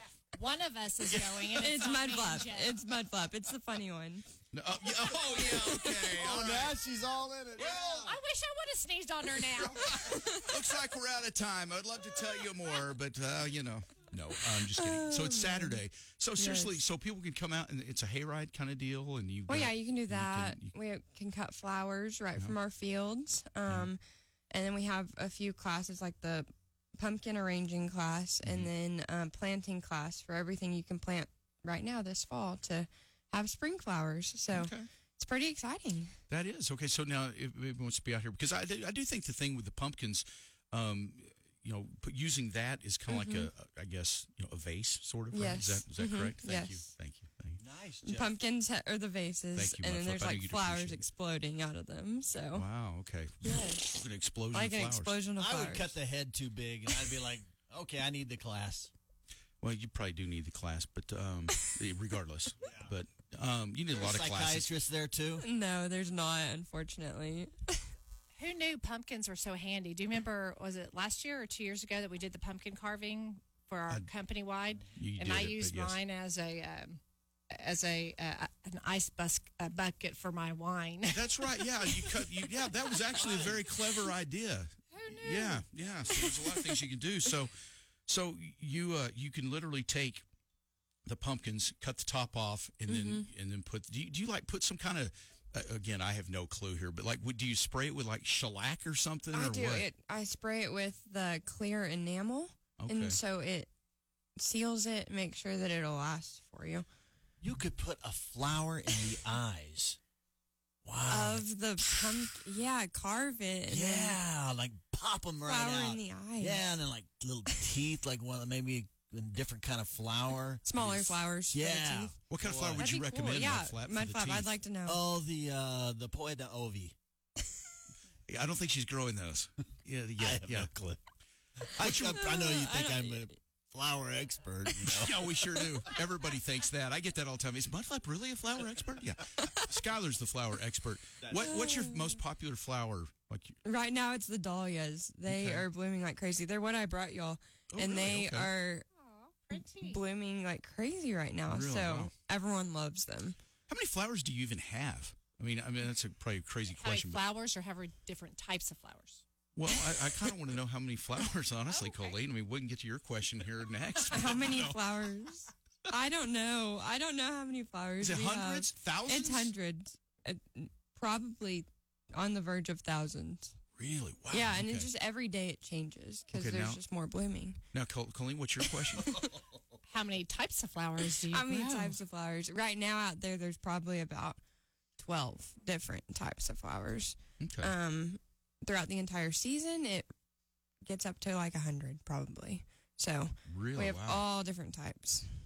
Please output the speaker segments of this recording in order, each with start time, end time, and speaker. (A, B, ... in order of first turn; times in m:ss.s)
0:00.3-0:02.8 A
0:01.6-0:04.3 B
0:04.5-0:06.7 C
0:05.6-0:06.1 B
0:06.1-0:08.2 D
0:07.6-0:10.0 A
0:09.8-0:10.4 B
0:10.3-0:20.7 C
0:14.6-0:15.8 B
0:16.4-0:16.8 B
0:19.5-0:36.1 B
0:28.4-0:28.7 C
0:34.5-0:34.9 C
0:36.3-0:47.6 C
0:43.1-0:43.5 B
0:45.3-0:46.9 B
0:47.6-0:48.3 D
0:48.0-0:52.7 B
0:49.6-0:51.0 C
0:52.5-0:55.2 C
0:53.4-0:55.9 B
0:55.4-0:58.9 D
0:59.6-1:04.7 C
1:03.9-1:05.4 D
1:05.4-1:07.8 B
1:08.4-1:17.0 A
1:14.9-1:16.0 C
1:17.5-1:22.3 A
1:21.1-1:27.6 C
1:23.1-1:24.1 A
1:24.9-1:25.6 A
1:28.1-1:30.2 C
1:31.1-1:39.9 C
1:32.9-1:33.3 B
1:39.3-1:43.7 B
1:42.8-1:43.2 C
1:44.4-1:46.9 B
1:47.4-1:50.0 D
1:50.8-1:51.4 D
1:51.1-1:54.2 B
1:53.7-2:02.9 D
1:55.4-1:56.7 B
2:00.6-2:02.1 B
2:02.3-2:04.5 C
2:02.8-2:05.0 B
2:04.8-2:07.0 D
2:08.3-2:11.0 C
2:10.2-2:10.8 D
2:11.8-2:12.3 C
2:11.8-2:15.7 D
2:12.1-2:13.3 B
2:14.8-2:23.6 C
2:21.2-2:21.6 D
2:21.4-2:22.2 B
2:23.6-2:28.9 B
2:25.3-2:25.7 C
2:27.7-2:28.5 C
2:29.0-2:30.0 A
2:29.7-2:33.4 B
2:31.5-2:32.1 C
2:33.7-2:37.2 C
2:36.7-2:39.2 A
2:39.6-2:44.8 C
2:41.7-2:42.2 A
2:44.1-2:53.6 B
2:48.0-2:49.5 C
2:53.8-2:54.9 C
2:54.3-2:57.6 B
2:56.3-2:56.8 C
2:57.7-2:59.3 C
2:59.9-3:02.0 A
3:01.3-3:04.4 B
3:05.0-3:10.1 B
3:07.4-3:07.7 C
3:10.8-3:15.3 B
3:13.5-3:14.2 C